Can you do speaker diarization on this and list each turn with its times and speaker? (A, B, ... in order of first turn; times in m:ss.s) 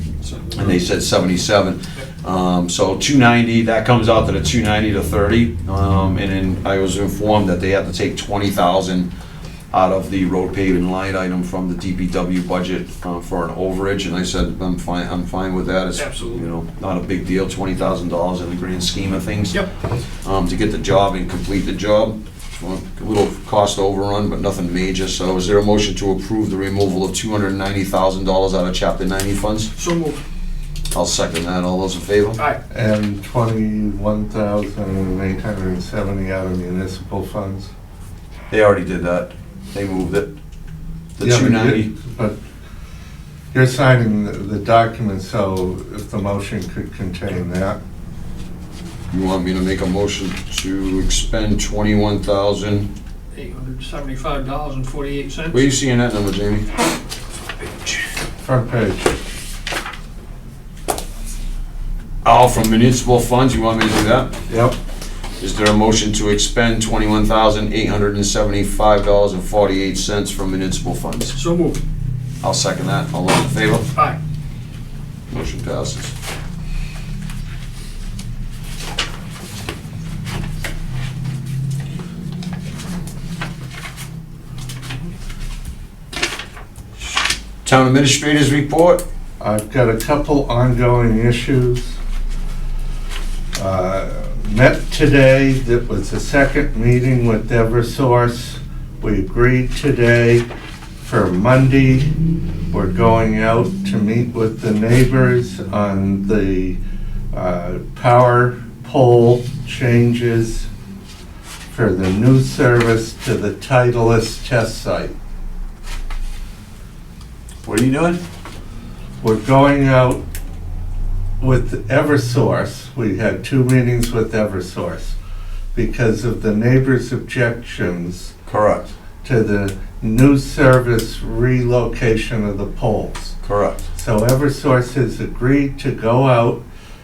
0:00.2-0:00.5 A
0:00.5-0:09.1 B
0:09.7-0:19.6 B
0:16.0-0:16.5 A
0:20.2-0:29.7 B
0:29.8-0:30.2 A
0:30.9-0:32.4 B
0:32.7-0:37.7 C
0:38.5-0:40.3 B
0:41.2-0:41.9 B
0:41.2-0:42.4 C
0:43.5-0:47.8 C
0:49.1-0:52.9 B
0:53.3-0:55.7 A
0:55.5-0:56.7 B
0:58.4-0:59.1 C
1:02.2-1:04.4 B
1:04.5-1:04.8 C
1:05.4-1:11.4 B
1:11.4-1:11.8 A
1:12.4-1:13.9 B
1:15.3-1:16.1 B
1:27.6-1:29.0 B
1:29.4-1:32.0 C
1:33.6-1:40.4 C
1:41.0-1:42.1 C
1:42.7-1:46.8 C
1:47.3-1:50.7 C
1:51.7-1:55.1 C
1:57.6-1:58.2 B
1:59.2-2:00.2 C
2:01.4-2:05.2 C
2:05.7-2:08.3 C
2:08.5-2:08.9 B
2:09.2-2:13.4 C
2:13.4-2:13.9 B
2:14.0-2:16.6 C